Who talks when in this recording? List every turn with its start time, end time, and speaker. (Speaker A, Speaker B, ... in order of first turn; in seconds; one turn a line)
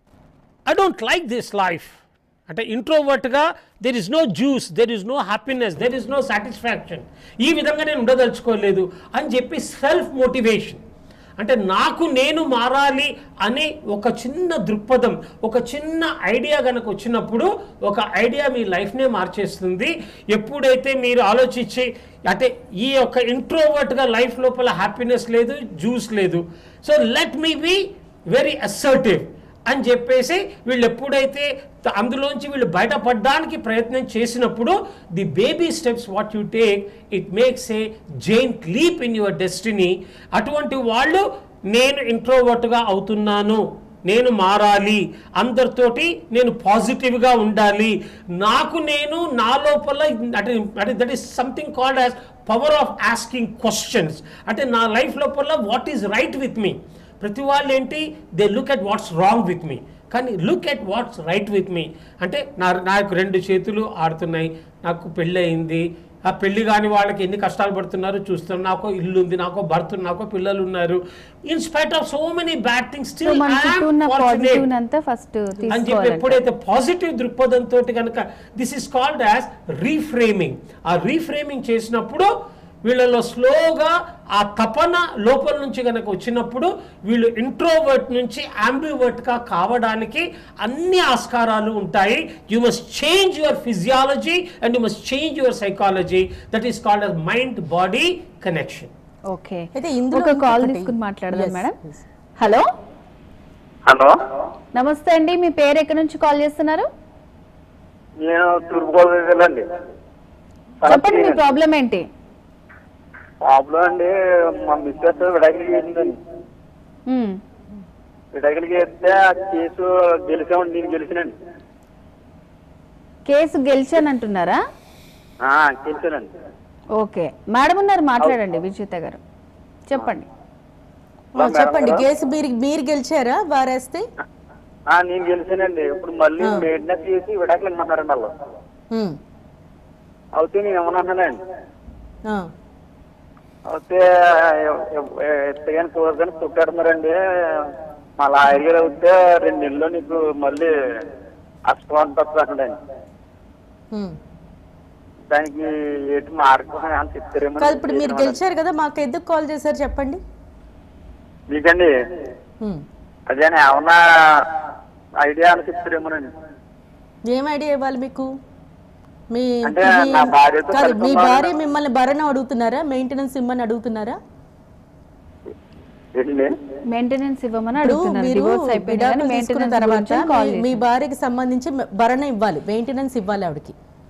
Speaker A: 0.7-10.8
Speaker A: 11.4-74.7
Speaker B: 73.2-76.4
Speaker A: 75.7-82.3
Speaker A: 82.8-98.9
Speaker B: 99.3-101.8
Speaker C: 99.7-102.0
Speaker B: 102.4-102.7
Speaker D: 103.9-104.1
Speaker B: 104.7-106.9
Speaker D: 108.2-109.7
Speaker D: 110.8-111.4
Speaker B: 110.8-112.1
Speaker D: 113.4-116.1
Speaker B: 117.1-117.4
Speaker D: 118.3-121.3
Speaker B: 123.3-124.6
Speaker D: 125.4-126.3
Speaker B: 127.0-129.2
Speaker B: 129.9-130.3
Speaker C: 131.3-134.1
Speaker D: 131.4-132.0
Speaker D: 134.9-138.4
Speaker C: 136.4-136.7
Speaker C: 138.9-139.2
Speaker D: 140.3-141.4
Speaker C: 142.2-142.5
Speaker D: 143.7-150.7
Speaker D: 151.7-152.8
Speaker C: 153.9-154.2
Speaker D: 155.3-158.4
Speaker C: 157.6-160.2
Speaker D: 161.5-161.9
Speaker D: 163.3-164.4
Speaker D: 165.2-166.3
Speaker C: 167.2-168.3
Speaker C: 169.3-174.2
Speaker D: 169.6-171.5
Speaker D: 176.2-176.6
Speaker B: 176.9-180.8
Speaker C: 177.8-183.7